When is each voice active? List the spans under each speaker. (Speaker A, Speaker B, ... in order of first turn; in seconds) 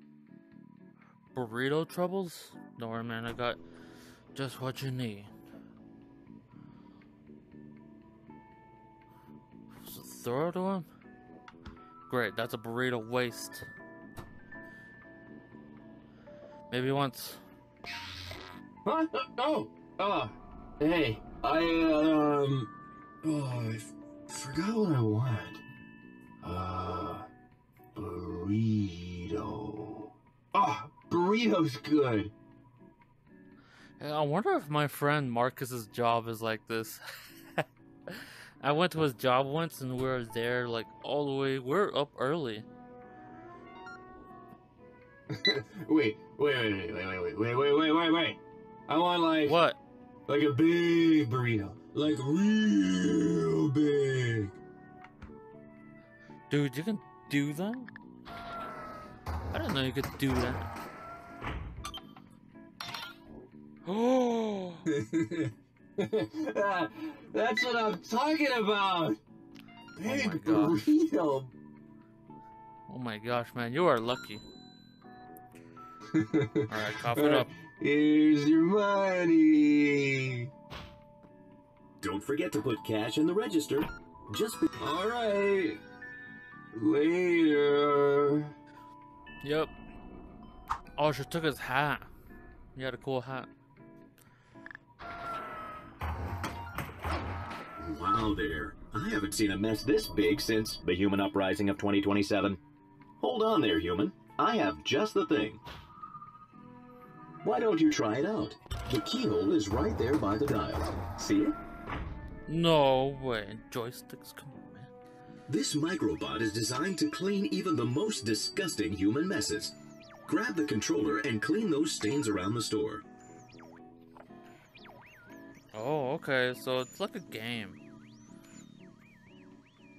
Speaker A: 1.3-3.6, 4.3-5.3, 9.8-10.9, 12.1-13.7, 16.7-17.4, 34.0-42.6, 49.4-49.8, 56.5-57.9, 59.5-60.7, 63.8-64.8, 70.0-70.9, 72.9-74.4, 76.7-77.5, 89.4-89.7, 91.0-92.1, 92.8-93.5, 112.5-114.9, 125.7-127.8
Speaker B: 18.8-22.7, 23.2-25.6, 26.4-27.3, 27.9-32.3, 45.3-49.6, 50.3-54.5, 64.9-69.2, 70.0-71.5, 76.1-80.5, 84.8-85.8, 86.7-88.5
Speaker C: 82.0-84.7, 97.8-102.6, 103.2-105.6, 107.4-111.5, 115.5-119.7, 120.2-123.0